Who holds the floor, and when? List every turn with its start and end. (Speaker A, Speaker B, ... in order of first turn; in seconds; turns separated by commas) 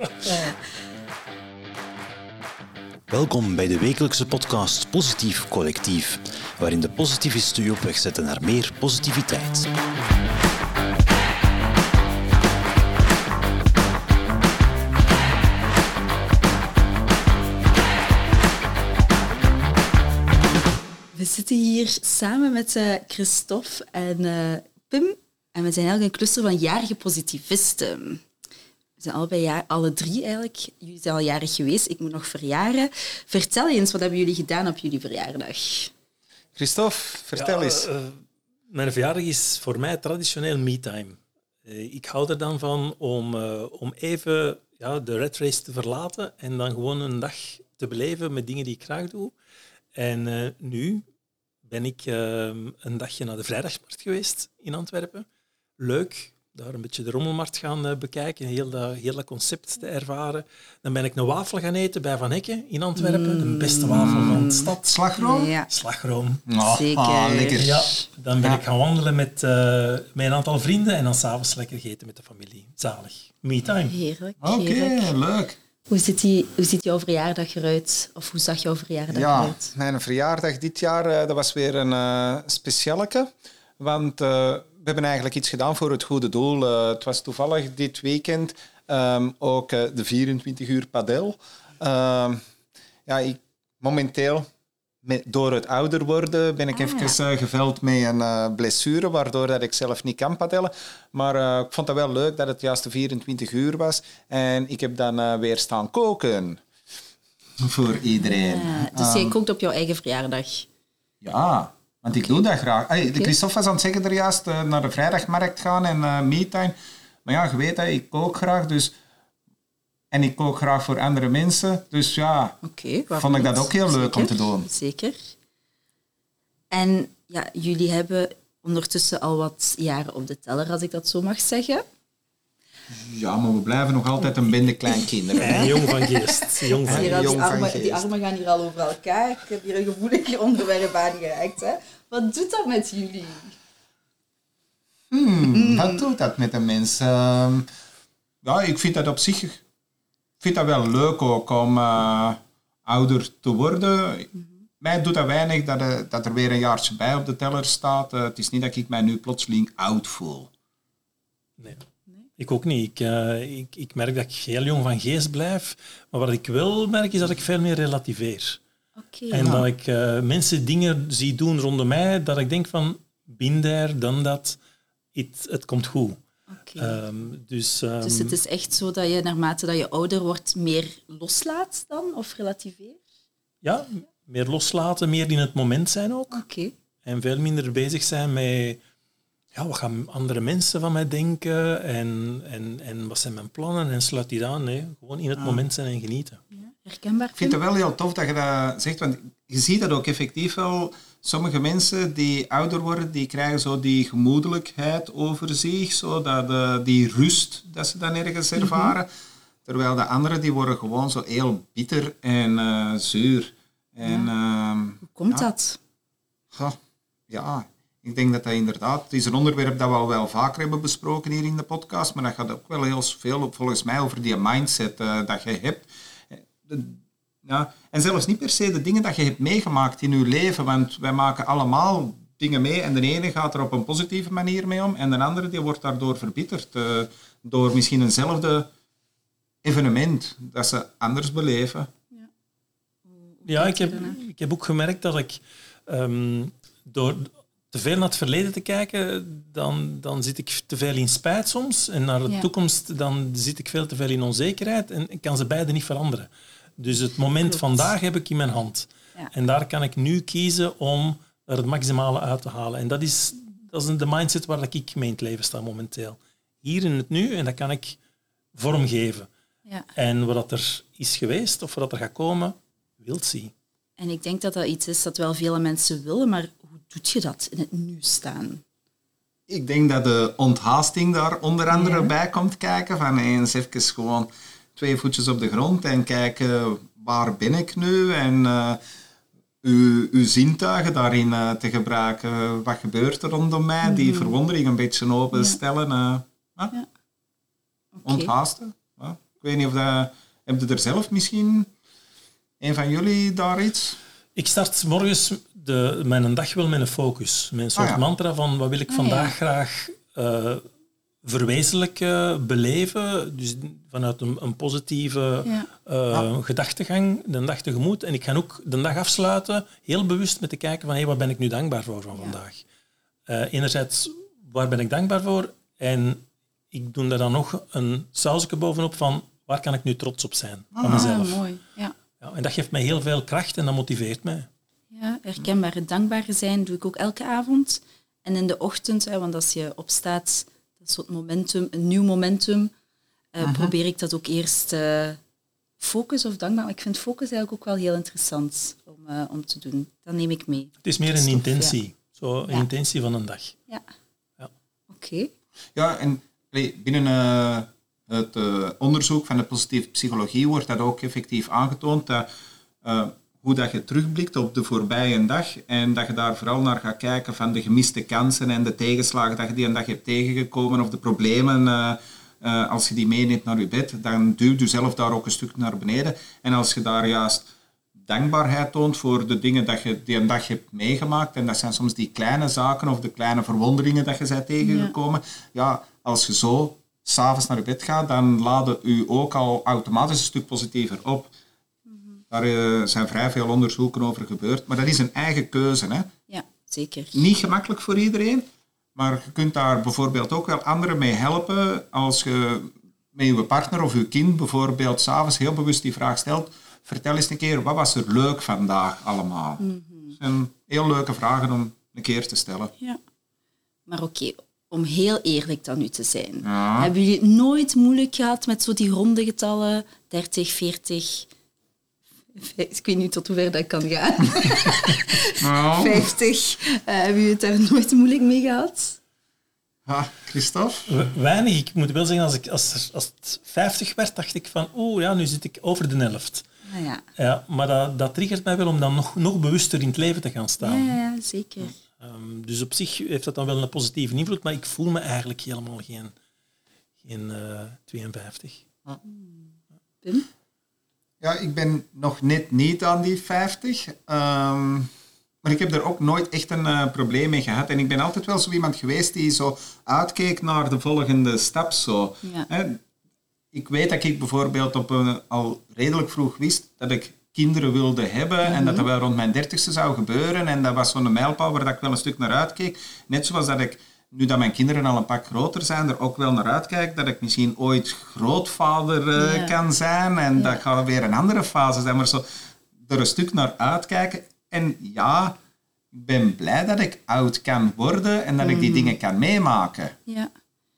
Speaker A: 3.1-9.7, Speaker B: 21.1-28.2, Speaker B: 29.0-35.9, Speaker C: 36.6-37.9, Speaker D: 37.4-49.4, Speaker D: 50.0-51.0, Speaker D: 51.6-55.3, Speaker D: 55.8-65.0, Speaker B: 63.0-65.7, Speaker C: 63.9-65.5, Speaker D: 65.7-66.5, Speaker C: 66.5-67.8, Speaker B: 66.7-68.1, Speaker D: 67.6-73.9, Speaker B: 73.9-75.1, Speaker C: 74.4-75.6, Speaker B: 75.9-79.7, Speaker C: 79.1-92.4, Speaker C: 93.1-94.5, Speaker C: 95.0-106.6, Speaker B: 96.7-97.2, Speaker C: 107.6-109.3, Speaker B: 108.2-110.7, Speaker C: 111.2-118.9, Speaker B: 113.0-113.3, Speaker C: 120.1-122.6, Speaker B: 122.6-125.2, Speaker C: 123.1-124.7, Speaker B: 126.7-131.8, Speaker C: 132.9-135.8, Speaker B: 134.8-143.6, Speaker D: 135.4-137.4, Speaker C: 136.9-138.1, Speaker C: 145.1-147.7, Speaker B: 145.5-146.0, Speaker C: 148.4-149.6, Speaker C: 150.4-154.3, Speaker C: 154.8-160.5, Speaker D: 161.6-161.8, Speaker D: 162.4-168.6, Speaker B: 169.0-169.7, Speaker D: 169.3-174.6, Speaker D: 175.2-176.2, Speaker B: 176.5-177.0, Speaker D: 176.8-178.4, Speaker B: 178.0-183.0, Speaker D: 183.6-186.4, Speaker B: 186.3-186.7, Speaker D: 187.1-188.8, Speaker D: 189.5-196.4, Speaker B: 196.6-197.6, Speaker C: 197.4-209.1, Speaker B: 208.6-208.9, Speaker C: 209.7-215.5, Speaker B: 214.1-214.3, Speaker B: 215.0-215.8, Speaker C: 217.3-238.7, Speaker C: 239.6-241.9, Speaker B: 243.1-244.2, Speaker D: 243.5-268.0, Speaker B: 257.4-257.8, Speaker D: 268.6-269.3, Speaker D: 269.9-273.5, Speaker B: 274.0-278.6, Speaker C: 279.5-288.8, Speaker B: 281.7-282.1, Speaker C: 289.6-296.7, Speaker B: 293.8-294.4, Speaker B: 295.3-295.6, Speaker B: 297.9-298.3, Speaker C: 298.1-301.7, Speaker C: 302.6-304.0, Speaker D: 304.4-310.6, Speaker C: 307.8-308.0, Speaker B: 308.9-309.3, Speaker D: 311.2-322.6, Speaker D: 323.3-331.4, Speaker C: 330.7-331.2, Speaker B: 330.9-331.9, Speaker D: 332.2-334.5, Speaker B: 334.9-342.7, Speaker B: 343.3-345.2, Speaker C: 343.4-343.7, Speaker B: 345.8-351.8, Speaker D: 350.8-353.6, Speaker B: 354.9-355.3, Speaker C: 355.8-362.3, Speaker C: 362.8-391.3, Speaker B: 384.6-384.9, Speaker B: 391.9-392.2, Speaker C: 392.3-396.1, Speaker B: 396.3-397.2, Speaker C: 397.1-409.6, Speaker B: 409.6-410.2, Speaker C: 410.2-412.7, Speaker B: 413.9-421.3, Speaker C: 416.4-416.9, Speaker B: 422.3-429.0, Speaker C: 425.4-426.1, Speaker C: 429.9-430.9, Speaker D: 430.9-436.4, Speaker B: 436.7-437.0, Speaker D: 437.2-440.9, Speaker B: 440.6-441.7, Speaker D: 441.8-446.1, Speaker D: 447.0-448.6, Speaker B: 449.0-450.3, Speaker C: 451.2-454.9, Speaker C: 455.4-462.8, Speaker C: 463.5-482.2, Speaker B: 468.4-468.9, Speaker B: 479.2-479.6, Speaker B: 480.4-480.6, Speaker C: 482.8-485.4, Speaker C: 485.9-489.9, Speaker B: 488.4-489.0